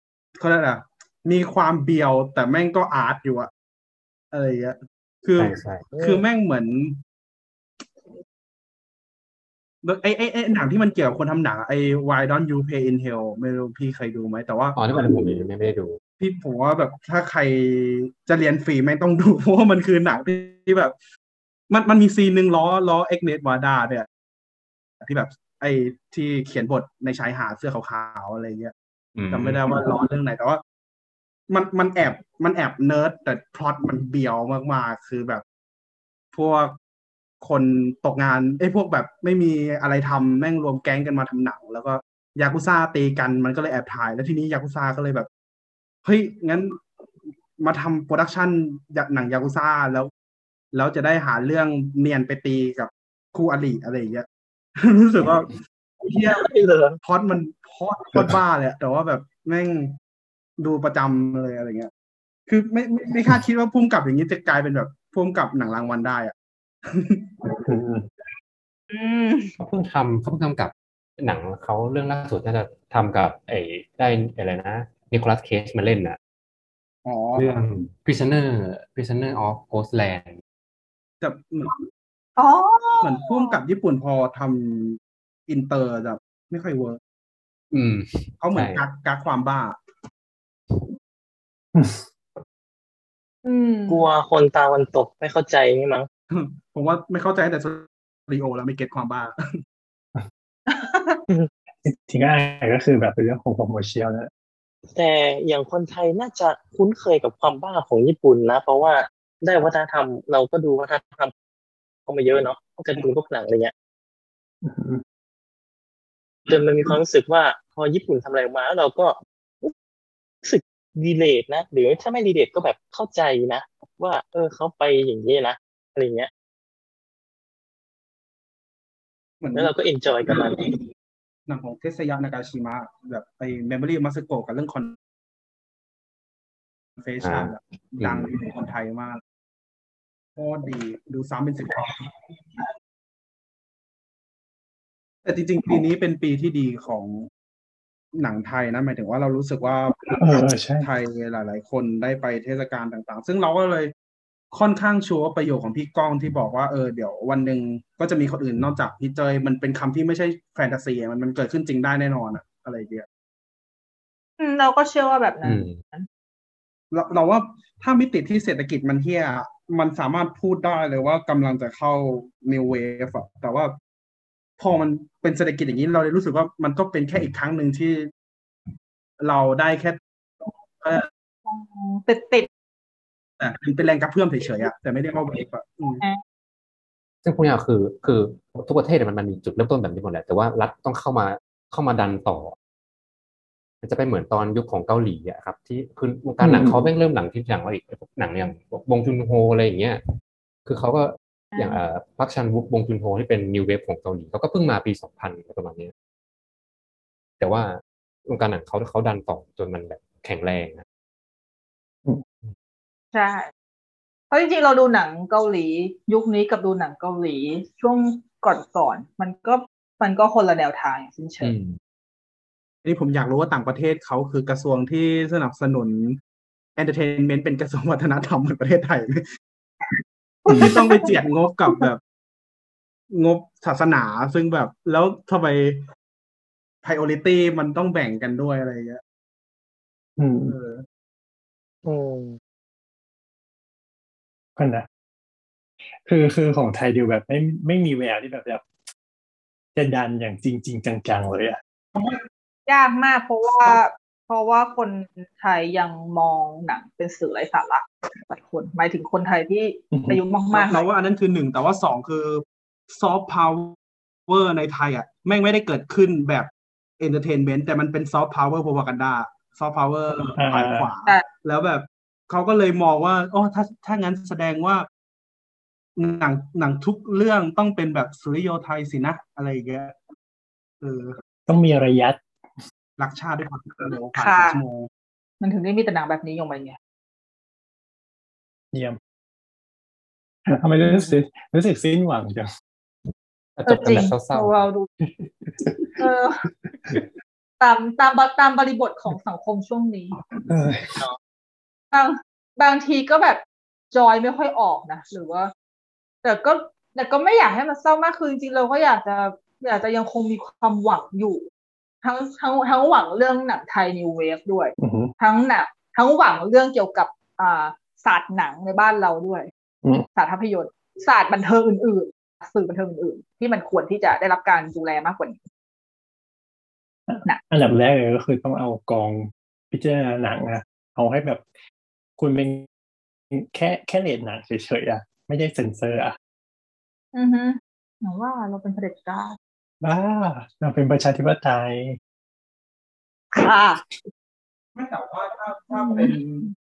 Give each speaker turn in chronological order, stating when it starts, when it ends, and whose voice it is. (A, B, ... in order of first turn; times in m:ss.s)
0:00.4-0:03.5 A
0:04.3-0:07.0 A
0:05.4-0:05.8 B
0:05.9-0:06.2 C
0:09.8-0:15.4 A
0:14.8-0:16.0 B
0:16.2-0:20.9 A
0:21.7-0:24.1 A
0:25.0-0:28.7 A
0:29.2-0:29.8 B
0:29.3-0:30.6 A
0:31.5-0:35.4 A
0:36.3-0:36.8 A
0:37.4-0:45.3 A
0:46.0-0:46.8 A
0:47.6-0:50.1 A
0:50.7-0:54.3 A
0:54.8-0:56.4 A
0:56.3-0:57.0 C
0:57.0-0:59.9 A
1:00.6-1:01.9 A
1:02.5-1:06.3 A
1:06.9-1:07.7 A
1:07.7-1:08.0 D
1:08.9-1:09.5 E
1:09.6-1:16.2 B
1:17.0-1:17.5 A
1:17.4-1:20.4 B
1:21.2-1:21.9 A
1:22.4-1:23.6 E
1:23.0-1:27.0 A
1:27.7-1:28.8 B
1:28.4-1:29.8 A
1:31.8-1:32.0 D
1:33.4-1:34.0 E
1:33.9-1:36.1 C
1:36.3-1:39.3 A
1:40.7-1:41.2 E
1:41.4-1:44.3 D
1:45.0-1:51.3 C
1:52.1-1:53.7 C
1:54.6-1:55.0 D
1:56.5-1:59.7 C
2:00.4-2:06.3 C
2:09.4-2:10.8 A
2:09.6-2:10.7 C
2:11.5-2:15.0 A
2:17.0-2:19.2 A
2:17.2-2:18.3 B
2:20.4-2:22.6 A
2:25.2-2:27.3 A
2:28.2-2:33.9 A
2:30.2-2:30.9 D
2:34.5-2:43.1 A
2:44.4-2:46.1 E
2:45.4-2:45.8 B
2:46.9-2:53.7 A
2:54.6-2:58.1 A
2:59.2-3:01.1 A
3:01.5-3:02.5 E
3:03.4-3:06.0 A
3:07.2-3:12.6 B
3:13.8-3:20.0 B
3:16.4-3:16.9 D
3:20.7-3:25.9 B
3:21.5-3:21.8 E
3:27.4-3:30.8 B
3:33.1-3:33.4 E
3:34.3-3:41.5 E
3:41.4-3:41.8 B
3:42.8-3:46.2 A
3:46.8-3:49.2 A
3:50.5-3:51.1 E
3:50.5-3:52.0 A
3:53.1-3:55.8 A
3:56.8-3:59.0 A
4:00.2-4:00.6 D
4:00.4-4:00.8 A
4:01.8-4:02.4 C
4:04.6-4:04.9 D
4:06.0-4:08.6 D
4:09.8-4:11.6 D
4:12.0-4:12.2 A
4:12.7-4:20.9 E
4:19.9-4:20.2 D
4:20.5-4:23.8 A
4:24.3-4:34.9 A
4:30.4-4:30.9 D
4:36.0-4:40.0 A
4:40.8-4:41.2 A
4:41.5-4:42.2 D
4:43.0-4:44.9 A
4:44.2-4:44.6 E
4:45.4-4:46.8 E
4:48.7-4:49.0 D
4:50.5-4:52.5 D
4:53.6-4:54.6 B
4:53.7-4:54.9 E
4:56.0-4:56.4 E
4:57.6-5:00.1 E
5:00.5-5:01.0 D
5:01.9-5:03.4 E
5:03.9-5:05.5 E
5:06.2-5:11.4 E
5:12.0-5:19.5 E
5:14.8-5:15.1 D
5:20.2-5:25.4 E
5:27.1-5:31.4 D
5:32.2-5:32.7 D
5:33.3-5:36.2 D
5:37.2-5:39.4 E
5:39.8-5:42.0 D
5:43.3-5:43.8 E
5:44.8-5:46.5 A
5:45.7-5:46.5 E